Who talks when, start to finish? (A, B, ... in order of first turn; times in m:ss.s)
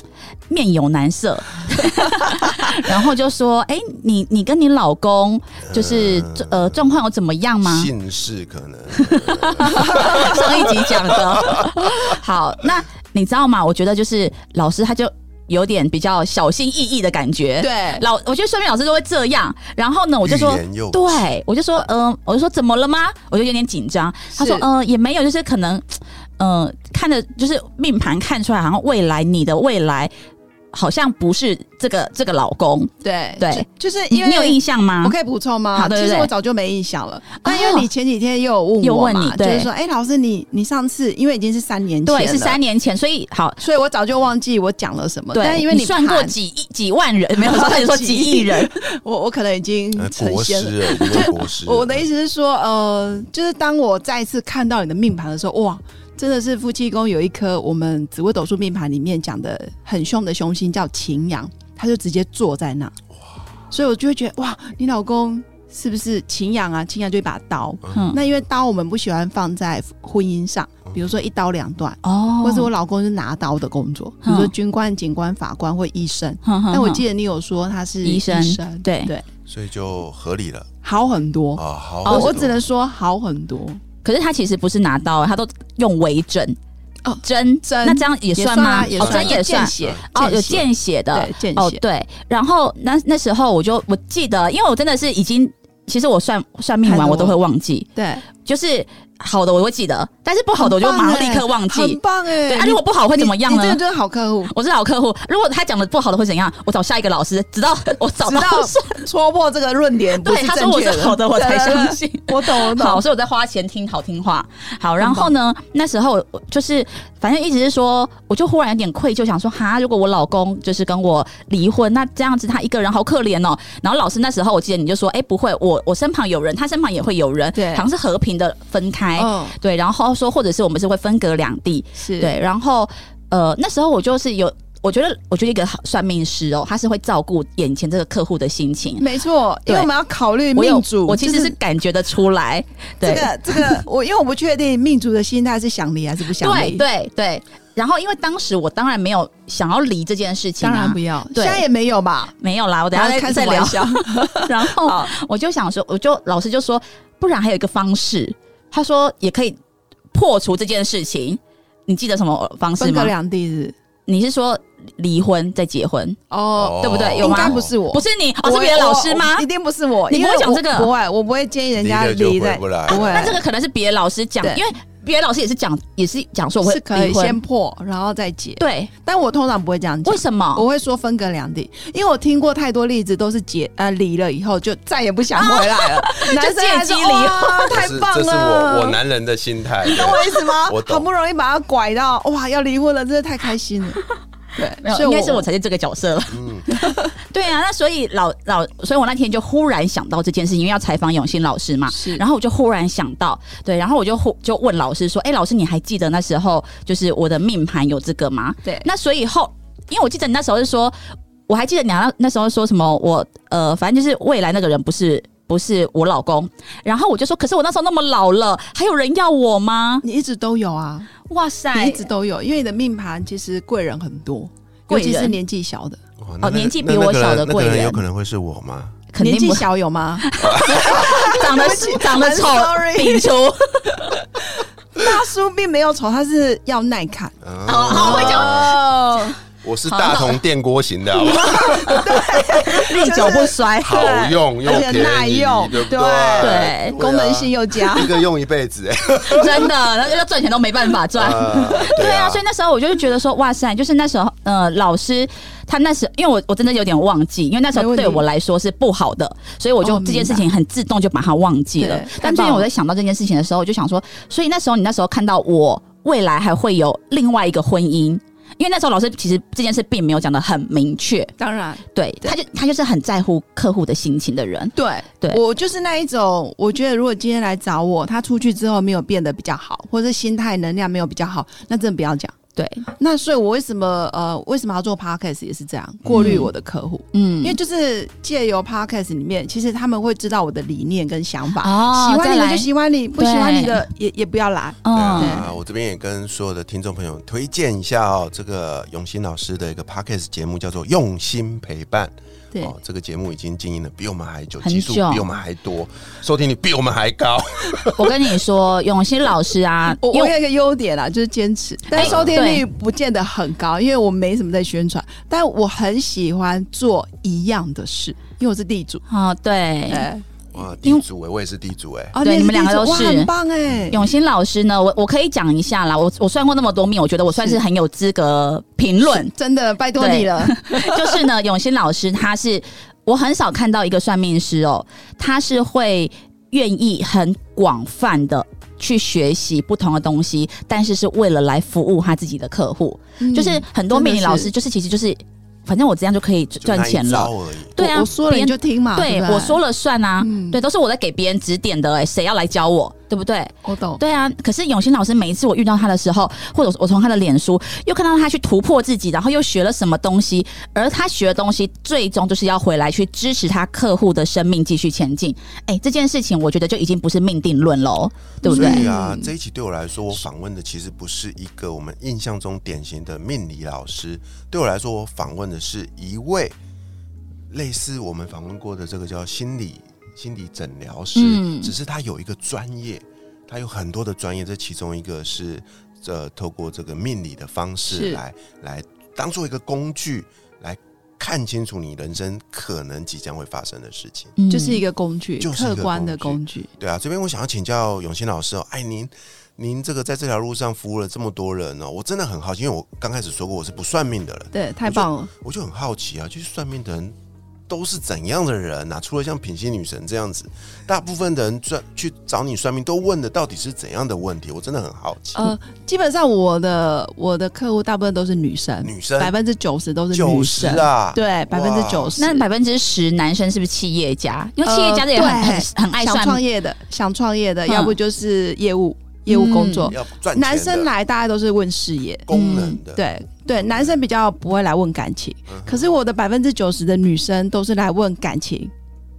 0:00.5-0:07.9 A
0:05.7-0:06.9 B
0:07.6-0:12.2 B
0:09.1-0:30.1 A
0:17.6-0:18.0 C
0:20.2-0:21.3 B
0:24.4-0:24.7 C
0:30.7-0:35.1 A
0:33.0-0:42.6 C
0:35.8-0:36.3 A
0:37.4-0:37.9 A
0:38.8-0:39.7 A
0:42.1-0:43.6 A
0:43.6-0:46.3 C
0:45.3-0:48.7 A
0:47.4-1:02.9 C
0:50.0-0:52.1 B
1:03.7-1:19.3 C
1:07.9-1:08.2 A
1:12.0-1:12.7 A
1:14.2-1:14.5 A
1:16.4-1:17.0 A
1:18.0-1:19.1 A
1:19.5-1:20.7 B
1:20.8-1:23.8 C
1:21.6-1:22.6 B
1:22.1-1:22.3 A
1:24.0-1:26.6 A
1:27.0-1:31.8 C
1:27.2-1:43.8 A
1:29.0-1:30.6 B
1:36.8-1:37.4 C
1:38.0-1:38.3 C
1:40.6-1:44.5 C
1:44.5-1:49.0 A
1:48.2-1:53.0 C
1:50.2-2:19.1 A
1:55.0-1:55.3 C
2:07.6-2:07.9 C
2:09.2-2:09.6 C
2:12.0-2:12.4 C
2:19.0-2:21.6 C
2:20.6-2:23.8 A
2:23.0-2:26.8 C
2:26.4-2:31.6 A
2:30.6-2:32.3 C
2:32.4-2:39.6 A
2:32.9-2:35.1 C
2:40.1-2:43.1 A
2:42.8-2:43.8 C
2:44.1-2:46.2 A
2:46.3-2:53.4 C
2:46.6-2:47.7 B
2:46.8-2:49.5 A
2:50.1-2:50.9 A
2:51.8-2:53.3 B
2:53.0-2:57.4 A
2:56.6-3:09.0 C
2:58.6-2:58.9 A
3:00.0-3:00.6 A
3:05.4-3:07.7 A
3:07.7-3:11.1 B
3:09.8-3:14.0 C
3:14.6-3:15.5 C
3:14.8-3:31.0 A
3:16.3-3:16.7 B
3:16.7-3:17.1 C
3:21.9-3:22.2 C
3:31.5-3:40.0 A
3:40.0-3:41.1 C
3:41.3-3:42.0 A
3:41.7-3:46.0 C
3:44.9-3:45.4 A
3:46.2-3:49.0 B
3:46.4-3:48.0 A
3:49.1-3:49.7 A
3:49.2-3:53.3 C
3:50.2-3:54.2 A
3:50.4-3:51.0 B
3:54.1-3:59.4 C
3:57.4-3:58.8 B
3:57.7-3:58.8 A
3:59.6-4:09.7 B
3:59.9-4:00.4 A
4:01.2-4:08.2 C
4:02.6-4:04.3 A
4:06.4-4:07.0 A
4:09.3-4:31.3 A
4:11.2-4:12.4 B
4:17.7-4:18.2 C
4:19.8-4:20.5 C
4:21.8-4:22.7 C
4:31.4-4:32.4 C
4:31.9-4:35.4 A
4:34.8-4:42.4 C
4:42.6-4:42.8 A
4:43.0-4:55.5 C
4:46.1-4:46.4 B
4:46.1-4:46.5 A
4:47.1-4:47.6 A
4:51.6-4:53.9 A
4:54.8-4:55.4 A
4:54.9-5:08.1 B
5:04.6-5:05.3 A
5:08.0-5:10.3 A
5:10.0-5:19.0 C
5:11.9-5:12.6 A
5:12.0-5:12.4 B
5:19.1-5:20.1 A
5:19.9-5:20.2 C
5:20.5-5:22.2 B
5:22.1-5:24.0 C
5:22.2-5:23.3 A
5:23.7-5:23.9 B
5:23.9-5:29.3 A
5:27.4-5:27.6 C
5:29.0-5:31.2 C
5:30.0-6:08.9 A
5:43.2-5:44.5 C
5:46.6-5:47.8 B
5:47.8-5:49.6 C
5:50.2-5:50.6 C
5:53.6-5:54.0 C
6:08.4-6:09.3 C
6:08.5-6:16.6 B
6:17.5-6:34.4 B
6:21.2-6:21.7 A
6:27.9-6:28.2 C
6:34.4-6:34.8 A
6:34.5-6:36.7 C
6:35.4-6:47.2 B
6:44.5-6:45.3 C
6:47.7-6:55.5 B
6:55.4-7:02.4 C
6:58.8-6:59.3 B
7:00.1-7:02.2 B
7:02.2-7:06.4 A
7:04.6-7:12.3 C
7:07.7-7:08.0 A
7:09.3-7:09.9 A
7:09.9-7:10.9 B
7:12.3-7:13.0 B
7:12.3-7:12.8 A
7:12.9-7:18.7 C
7:13.6-7:14.0 B
7:15.5-7:15.9 B